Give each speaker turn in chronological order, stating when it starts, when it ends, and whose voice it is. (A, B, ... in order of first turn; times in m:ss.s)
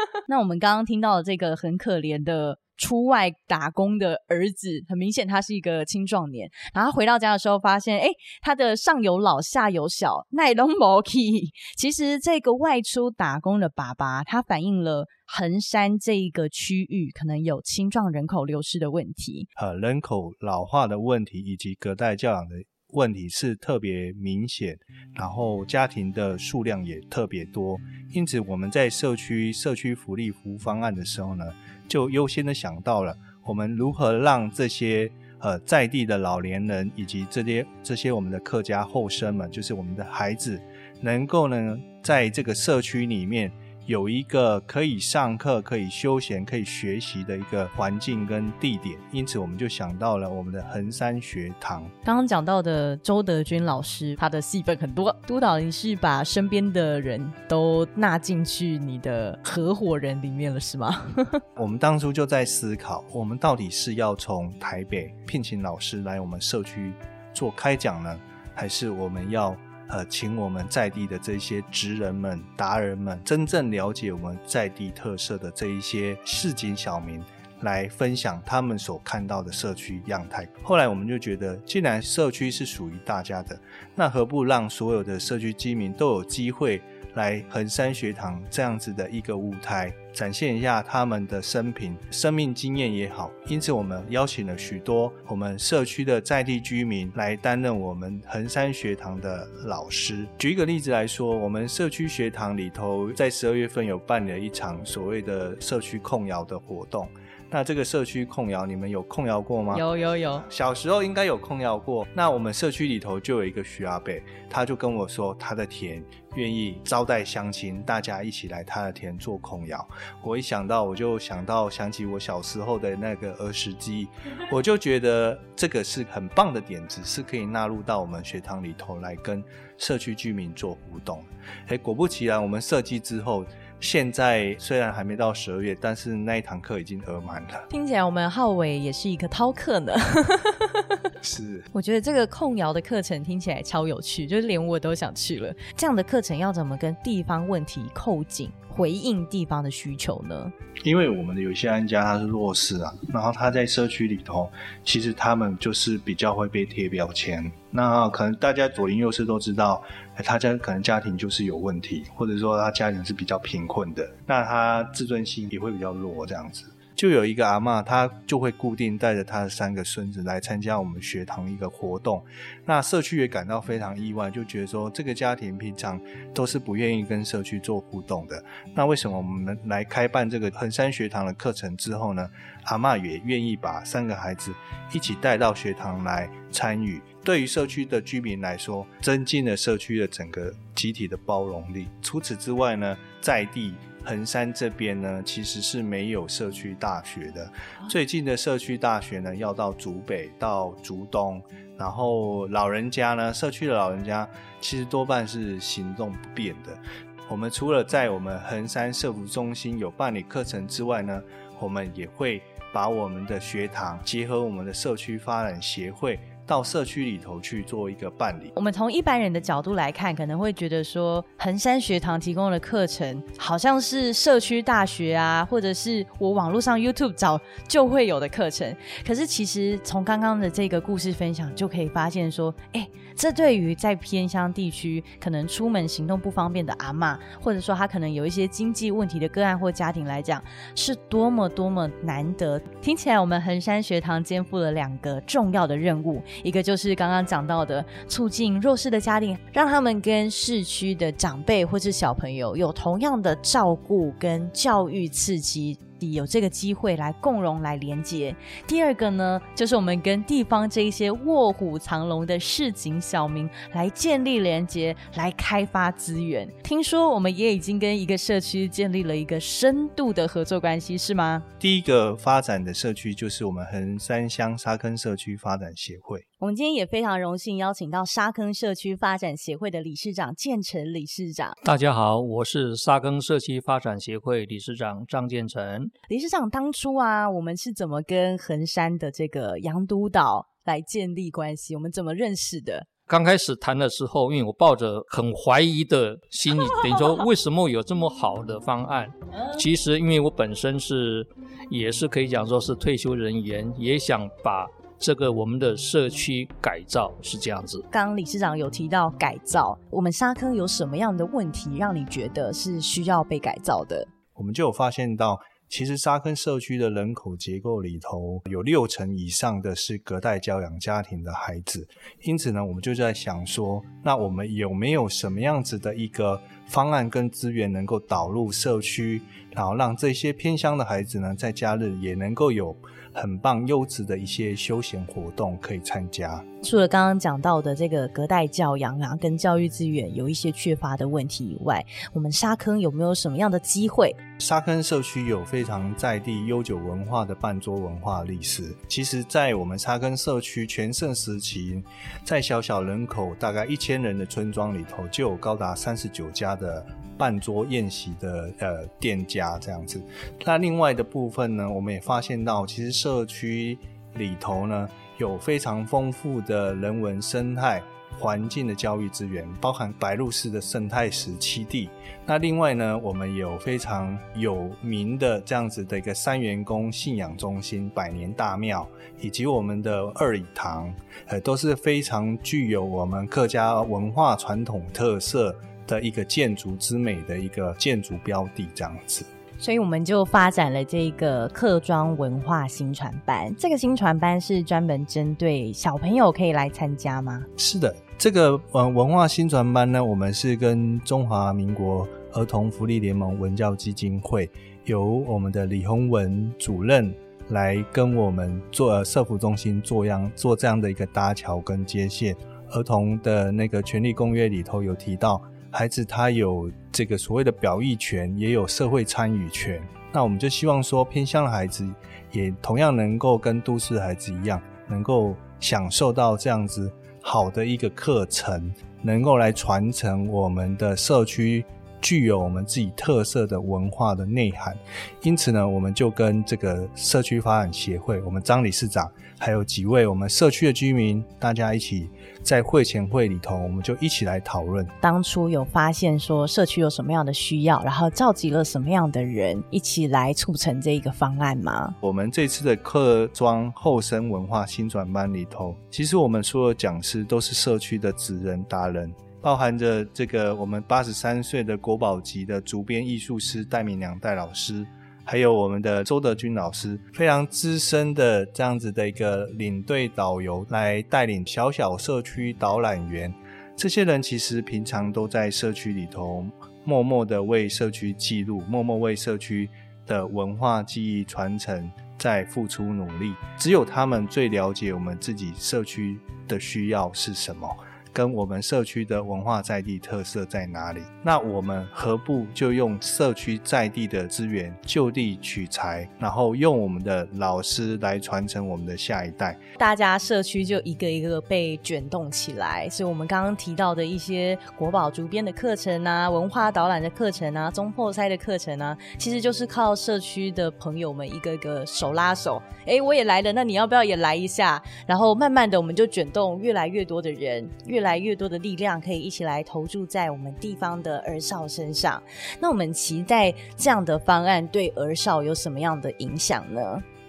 0:00.3-0:19.5 A
0:19.6-0:51.9 B
0:52.0-1:01.4 A
1:01.6-1:49.9 B
1:49.7-1:50.4 A
1:50.4-2:17.7 B
2:17.7-2:20.8 A
2:21.2-2:21.7 B
2:21.7-2:30.5 A
2:30.8-3:38.5 B
3:38.6-4:31.4 A
4:31.6-4:36.2 B
4:36.4-4:41.6 A
4:41.6-4:45.9 C
4:46.1-4:52.9 A
4:53.1-5:07.8 C
5:07.9-5:14.1 A
5:14.4-5:36.4 B
5:36.6-5:44.2 A
5:44.4-6:29.3 B
6:29.6-6:37.5 A
6:37.6-7:24.9 B
7:25.0-7:32.0 A
7:32.0-8:19.6 B
8:19.8-8:47.0 A